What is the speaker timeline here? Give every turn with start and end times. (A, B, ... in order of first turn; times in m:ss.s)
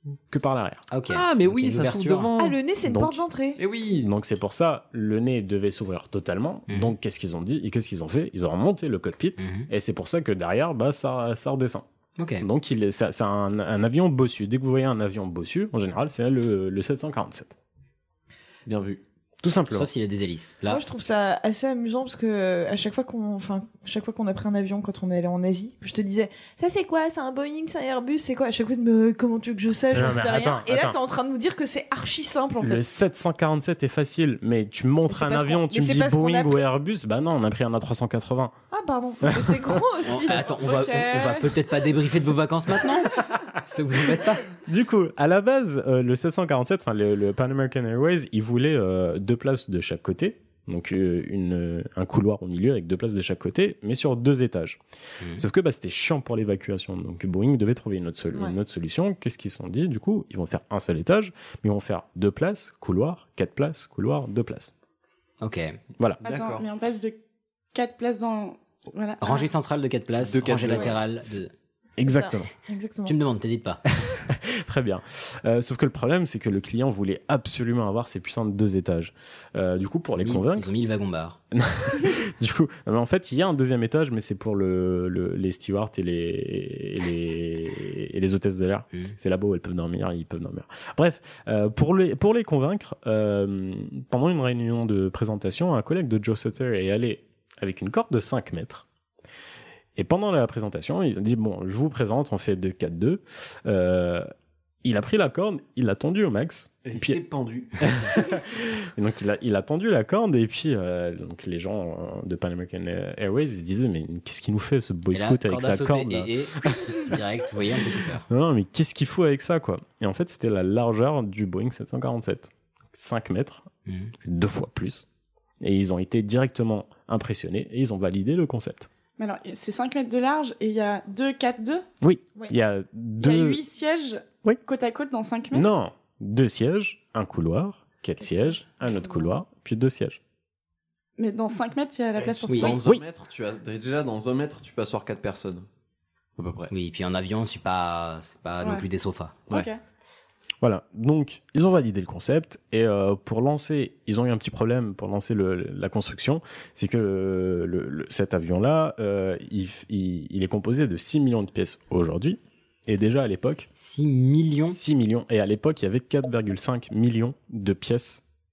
0:00.3-0:00.8 A
0:00.9-0:02.3 B
0:01.1-0:02.6 C
0:02.4-0:03.6 D
0:02.8-0:03.2 A
0:03.6-0:04.1 C
0:04.0-0:11.8 A
0:06.7-0:06.9 B
0:09.4-0:09.7 B
0:12.2-0:12.4 B
0:12.4-0:17.5 A
0:18.7-0:19.0 C
0:19.4-0:19.9 A
0:19.7-0:20.8 B
0:20.7-0:32.8 D
0:29.9-0:31.0 A
0:32.6-0:38.5 A
0:35.1-0:36.6 D
0:38.7-0:40.5 D
0:39.3-0:39.5 A
0:40.0-0:43.1 B
0:40.3-0:41.5 E
0:43.6-0:44.5 B
0:44.7-0:54.8 A
0:55.4-1:04.7 A
1:05.4-1:05.8 B
1:06.2-1:06.6 C
1:06.2-1:07.2 E
1:07.7-1:09.5 E
1:09.2-1:11.5 B
1:10.2-1:11.1 C
1:12.0-1:12.5 A
1:12.0-1:13.2 D
1:13.1-1:13.8 B
1:14.0-1:20.7 A
1:20.2-1:21.4 B
1:21.5-1:38.8 A
1:40.0-1:44.3 A
1:44.8-1:47.2 A
1:46.8-1:47.7 C
1:47.8-1:57.0 A
1:55.1-1:58.3 B
1:58.3-2:03.7 A
2:03.9-2:04.1 B
2:04.2-2:05.0 A
2:05.6-2:08.9 A
2:09.2-2:11.9 E
2:12.0-2:13.6 A
2:13.2-2:15.7 E
2:15.5-2:20.2 A
2:21.2-2:22.8 E
2:22.2-2:25.7 C
2:22.5-2:22.8 B
2:22.8-2:23.0 A
2:26.4-2:26.7 C
2:26.7-2:29.4 B
2:29.5-2:29.8 E
2:30.6-2:43.7 A
2:43.8-2:44.8 B
2:44.7-2:48.2 A